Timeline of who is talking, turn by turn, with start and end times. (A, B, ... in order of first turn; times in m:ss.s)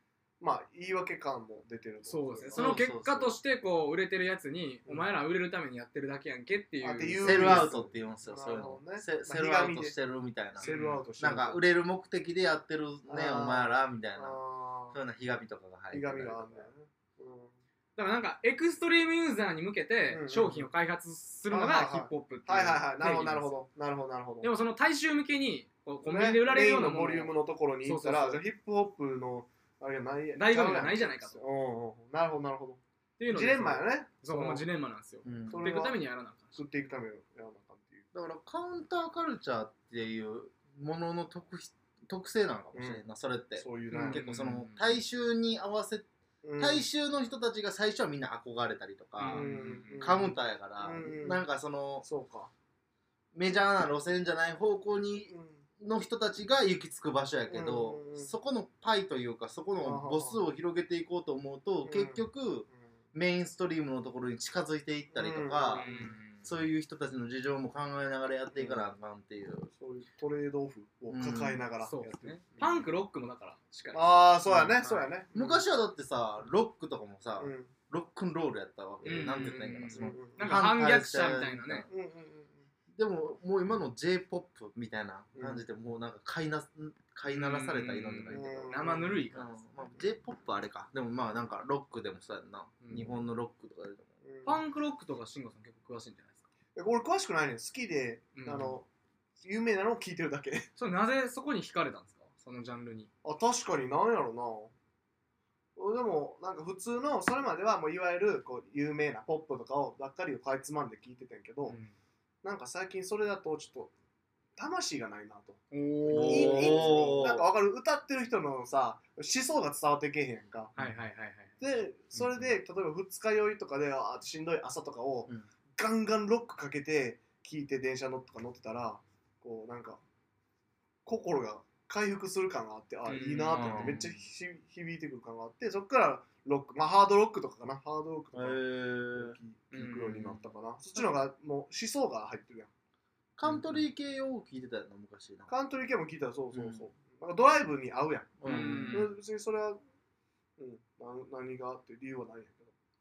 0:00.4-0:02.8 A
0:02.0-0:07.7 B
0:02.5-0:03.3 C
0:06.8-0:10.0 A
0:07.2-0:14.4 C
0:10.6-0:11.1 B
0:10.6-0:11.6 A
0:13.0-0:15.0 A
0:14.9-0:16.7 C
0:15.9-0:17.5 A
0:18.0-0:23.6 B
0:20.0-0:20.7 A
0:21.5-0:24.5 A
0:24.4-0:28.4 B
0:26.0-0:32.8 A
0:30.3-0:31.4 B
0:33.2-0:36.6 B
0:33.3-0:34.6 A
0:35.2-0:35.7 C
0:35.5-0:36.0 A
0:36.5-0:38.0 A
0:38.1-0:46.1 C
0:42.7-0:43.0 A
0:43.6-0:44.2 A
0:43.9-0:45.0 B
0:46.4-0:46.8 A
0:46.6-0:52.0 C
0:49.2-0:50.2 B
0:49.2-0:51.4 A
0:52.0-0:52.5 A
0:53.3-1:09.7 C
0:55.3-0:55.6 A
0:57.5-0:58.3 A
0:59.8-1:00.4 A
1:01.8-1:02.2 A
1:05.1-1:06.1 A
1:05.7-1:06.6 B
1:08.5-1:08.9 A
1:09.7-1:12.9 A
1:11.1-1:11.6 C
1:11.8-1:15.2 B
1:13.9-1:15.6 A
1:14.5-1:14.8 C
1:15.3-1:21.9 C
1:17.4-1:17.7 A
1:19.0-1:21.9 B
1:20.0-1:20.6 A
1:21.9-1:22.6 A
1:22.9-1:34.1 C
1:25.3-1:25.6 A
1:27.2-1:29.6 B
1:28.3-1:29.2 A
1:32.8-1:33.1 B
1:34.2-1:34.6 A
1:34.4-1:36.4 B
1:36.7-1:38.8 A
1:38.3-1:38.8 B
1:39.4-1:40.7 A
1:40.8-1:43.1 B
1:43.2-1:44.7 A
1:45.8-1:51.8 A
1:51.7-1:51.9 B
1:52.4-1:53.9 A
1:54.6-2:00.7 A
1:55.7-1:57.0 B
1:56.1-1:57.5 C
2:00.8-2:01.6 B
2:01.6-2:10.0 A
2:11.0-2:22.7 A
2:13.0-2:14.1 B
2:13.5-2:14.2 C
2:18.3-2:19.4 C
2:19.7-2:20.5 B
2:23.4-2:25.5 C
2:23.4-2:23.7 A
2:25.5-2:29.8 A
2:26.5-2:26.8 C
2:28.4-2:29.1 C
2:28.4-2:29.1 B
2:30.6-2:32.7 A